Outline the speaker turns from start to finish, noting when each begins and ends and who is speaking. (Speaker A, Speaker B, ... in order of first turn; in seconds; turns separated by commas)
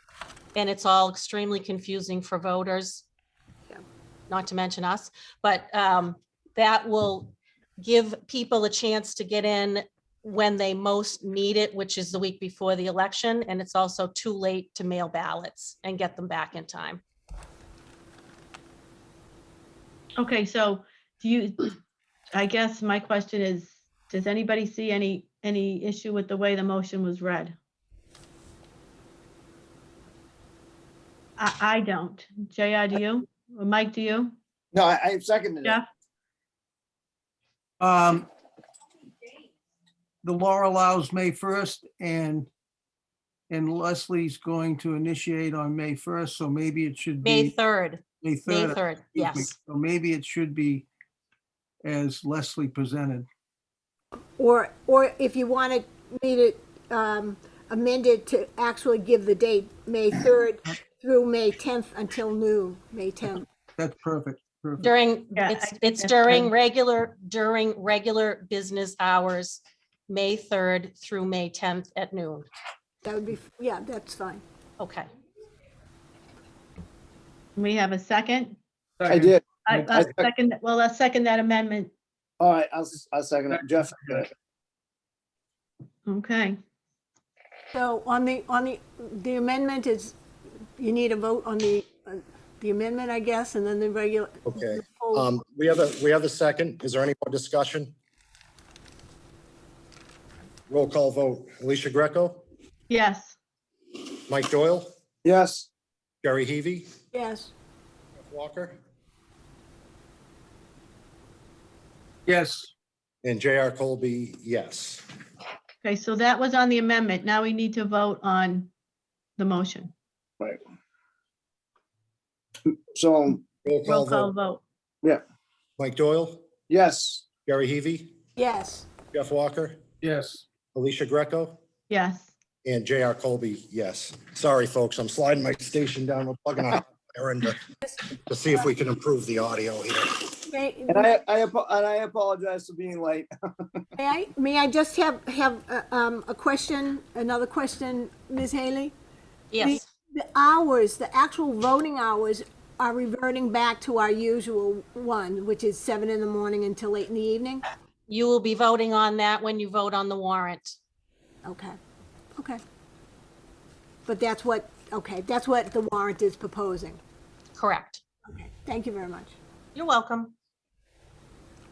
Speaker A: 0.5-3.0, Speaker A: 4.3-17.0, Speaker B: 20.2-21.7, Speaker B: 22.3-27.5, Speaker B: 31.4-34.3, Speaker C: 34.7-35.8, Speaker D: 37.8-38.3, Speaker D: 40.2-42.5, Speaker D: 43.5-47.5, Speaker A: 47.2-49.5, Speaker D: 48.2-50.9, Speaker D: 51.8-53.2, Speaker E: 54.4-63.5, Speaker D: 63.8-64.9, Speaker A: 64.8-72.5, Speaker B: 65.3-66.5, Speaker E: 73.0-74.4, Speaker A: 74.8-75.1, Speaker B: 77.5-78.6, Speaker D: 79.0-80.0, Speaker C: 79.1-80.3, Speaker B: 79.6-81.9, Speaker C: 82.4-84.3, Speaker B: 86.1-86.5, Speaker E: 87.7-90.2, Speaker E: 90.8-95.2, Speaker F: 94.5-97.9, Speaker F: 100.7-102.5, Speaker B: 102.9-103.3, Speaker F: 104.3-104.9, Speaker C: 105.2-105.7, Speaker F: 106.2-106.9, Speaker E: 107.1-107.5, Speaker F: 108.2-108.8, Speaker D: 112.3-112.7, Speaker F: 113.2-115.0, Speaker B: 115.8-118.7, Speaker B: 119.4-119.9, Speaker C: 122.9-123.5, Speaker F: 123.6-124.3, Speaker B: 123.9-124.6, Speaker F: 125.8-126.5, Speaker C: 126.7-127.3, Speaker F: 127.4-128.1, Speaker E: 128.4-128.9, Speaker F: 129.1-129.8, Speaker D: 130.0-130.4, Speaker F: 130.7-131.6, Speaker B: 131.9-132.3, Speaker F: 132.6-137.6, Speaker F: 138.1-140.3, Speaker E: 140.5-141.2, Speaker C: 140.9-143.8, Speaker E: 144.0-148.9, Speaker A: 149.5-149.8, Speaker E: 149.6-157.6, Speaker A: 158.1-160.8, Speaker E: 161.4-161.8, Speaker E: 162.3-162.6, Speaker E: 164.1-167.0, Speaker A: 167.6-168.0, Speaker E: 168.2-169.3, Speaker A: 169.7-170.3